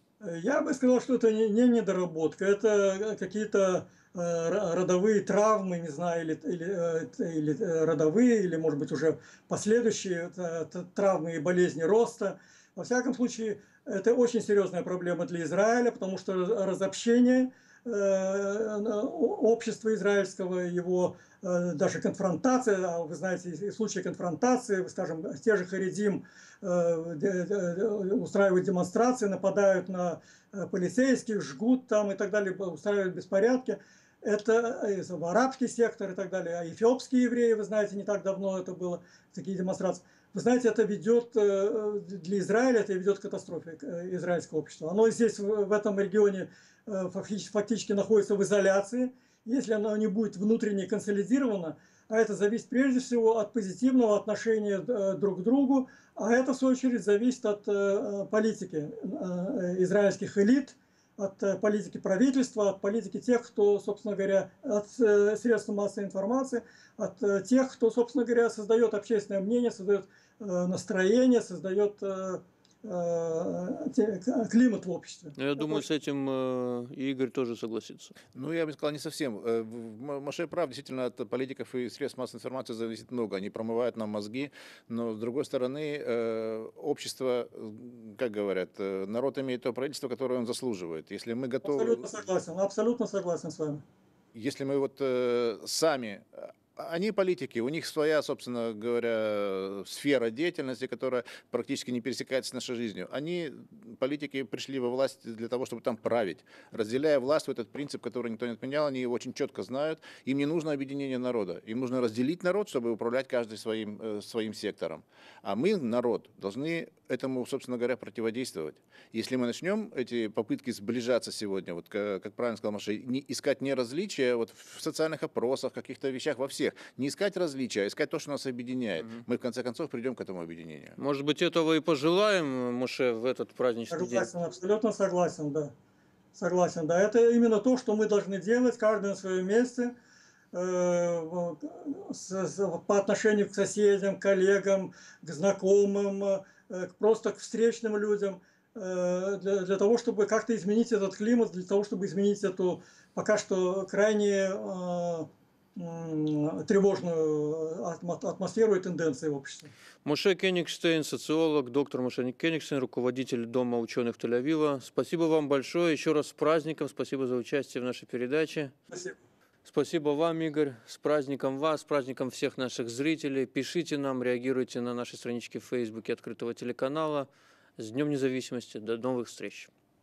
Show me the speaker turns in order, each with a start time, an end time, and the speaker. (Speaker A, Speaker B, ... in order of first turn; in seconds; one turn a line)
Speaker A: 0.2-75.8
Speaker B: 75.4-78.1
Speaker C: 78.3-92.0
Speaker A: 91.6-93.8
Speaker C: 94.3-130.9
Speaker B: 131.0-134.3
Speaker A: 133.9-135.7
Speaker A: 136.3-139.9
Speaker A: 140.5-159.7
Speaker B: 160.0-168.7
Speaker B: 169.6-179.7